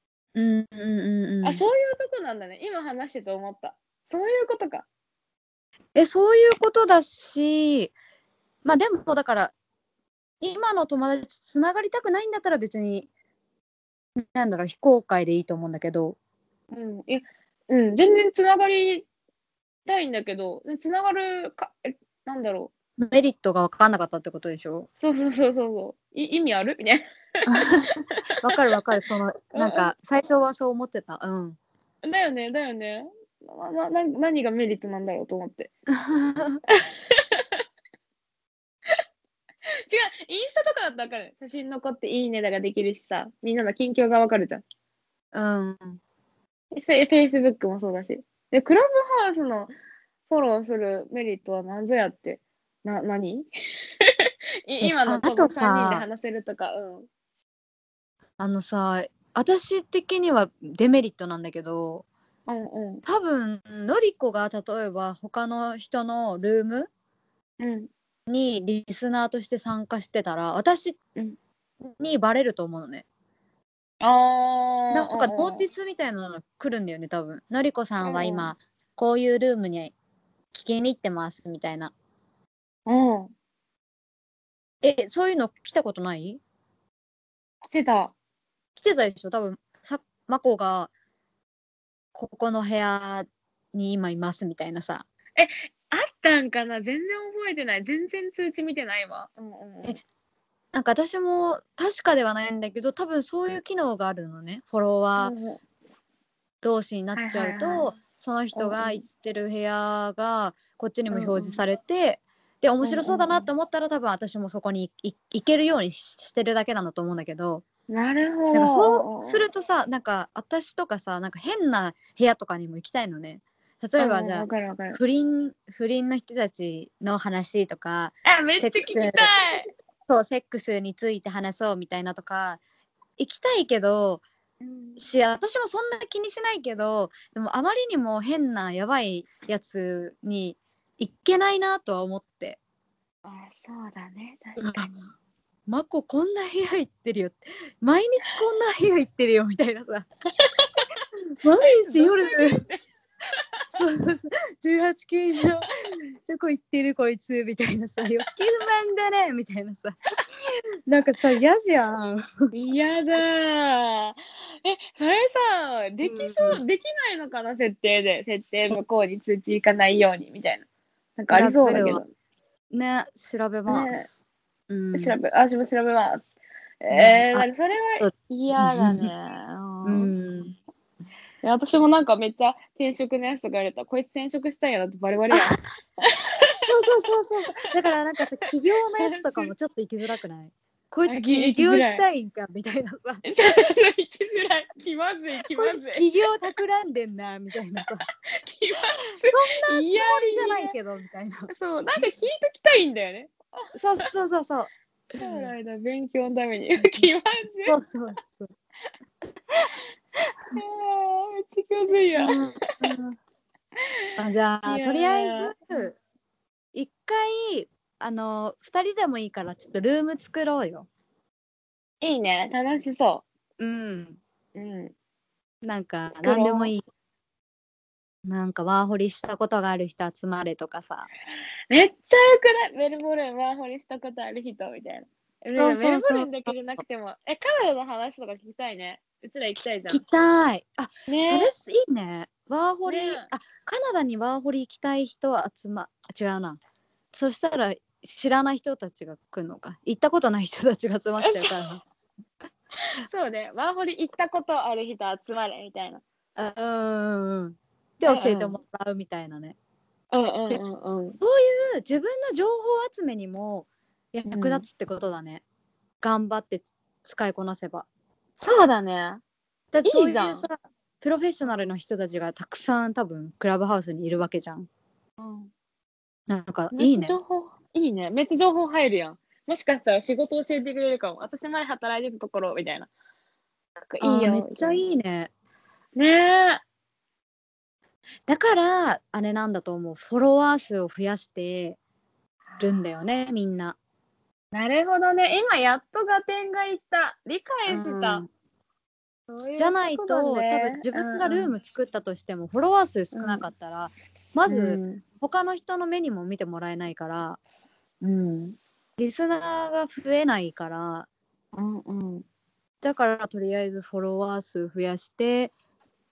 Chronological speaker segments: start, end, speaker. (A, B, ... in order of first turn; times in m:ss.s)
0:00.4-0:01.6 A
0:01.4-0:04.9 B
0:06.0-0:07.9 A
0:08.6-0:09.5 A
0:10.4-0:13.1 A
0:14.2-0:16.2 A
0:16.7-0:19.1 B
0:19.9-0:22.7 B
0:23.0-0:24.9 A
0:25.0-0:28.6 B
0:27.5-0:31.6 A
0:29.5-0:29.9 B
0:32.0-0:35.7 B
0:36.0-0:36.6 A
0:36.7-0:37.6 B
0:39.9-0:44.6 B
0:45.3-0:46.0 A
0:46.7-0:49.7 B
0:50.3-0:53.5 B
0:54.0-0:57.1 B
0:54.8-0:56.0 A
0:58.4-1:02.1 A
1:02.5-1:03.0 B
1:03.0-1:06.9 A
1:07.6-1:07.9 B
1:08.3-1:11.0 A
1:11.8-1:13.1 A
1:14.0-1:15.7 B
1:14.9-1:19.9 A
1:18.0-1:18.5 B
1:20.5-1:21.9 A
1:22.9-1:23.3 B
1:24.8-1:26.4 A
1:27.6-1:28.1 B
1:28.8-1:30.9 A
1:32.1-1:35.0 A
1:35.4-1:40.0 B
1:40.7-1:45.3 A
1:45.2-1:45.6 B
1:46.6-1:57.6 A
1:47.1-1:47.9 B
1:48.5-1:49.0 B
1:51.1-1:51.6 B
1:52.8-1:53.5 B
1:57.9-1:59.4 B
1:58.5-2:09.3 A
2:04.0-2:05.0 B
2:08.3-2:09.7 B
2:10.1-2:12.6 A
2:13.2-2:14.2 A
2:14.6-2:15.0 B
2:15.0-2:22.6 A
2:23.2-2:25.1 B
2:24.6-2:24.9 A
2:25.7-2:30.1 A
2:30.3-2:31.0 B
2:31.4-2:32.6 A
2:31.6-2:32.8 B
2:33.4-2:33.6 B
2:33.7-2:40.0 A
2:40.9-2:42.5 A
2:42.5-2:50.7 B
2:46.0-2:46.6 A
2:51.2-2:52.0 B
2:51.3-2:52.0 A
2:52.7-2:55.1 A
2:53.7-2:54.1 B
2:54.9-2:56.3 B
2:56.8-3:00.2 B
2:56.9-2:57.5 A
2:58.0-2:59.1 A
2:59.8-3:00.5 A
3:01.4-3:06.5 B
3:05.3-3:05.6 A
3:06.6-3:13.2 A
3:09.0-3:09.5 B
3:11.1-3:12.0 B
3:13.2-3:16.0 B
3:15.5-3:18.0 A
3:18.4-3:20.8 B
3:19.3-3:21.5 A
3:21.5-3:23.5 B
3:23.7-3:25.5 A
3:25.2-3:27.8 B
3:26.8-3:27.1 A
3:27.7-3:28.5 A
3:30.5-3:32.8 B
3:32.2-3:33.2 A
3:34.2-3:35.5 B
3:34.2-3:35.9 A
3:36.7-3:40.9 A
3:42.0-3:43.2 B
3:43.6-3:44.2 A
3:44.6-3:44.9 B
3:45.6-3:46.8 A
3:46.2-3:46.7 B
3:48.3-3:51.1 A
3:51.7-4:00.0 B
3:55.6-3:56.5 A
3:59.9-4:06.6 A
4:01.1-4:01.5 B
4:02.8-4:03.3 B
4:07.1-4:11.8 A
4:11.2-4:11.7 B
4:13.1-4:16.0 B
4:16.4-4:19.6 A
4:18.0-4:18.6 B
4:20.1-4:21.2 B
4:21.2-4:25.4 A
4:24.3-4:24.7 B
4:26.0-4:27.9 A
4:28.4-4:29.2 B
4:29.7-4:34.7 A
4:29.8-4:30.5 B
4:35.2-4:35.5 B
4:36.3-4:37.2 A
4:36.7-4:42.9 B
4:43.9-4:44.8 B
4:44.0-4:45.3 A
4:46.0-4:46.6 B
4:48.3-4:51.8 A
4:52.6-4:53.8 A
4:54.5-4:58.3 B
4:57.7-4:58.3 A
4:59.3-5:01.5 B
4:59.6-5:07.4 A
5:03.1-5:03.5 B
5:04.5-5:05.0 B
5:08.0-5:08.6 B
5:09.0-5:11.1 A
5:11.5-5:12.2 B
5:12.8-5:15.5 A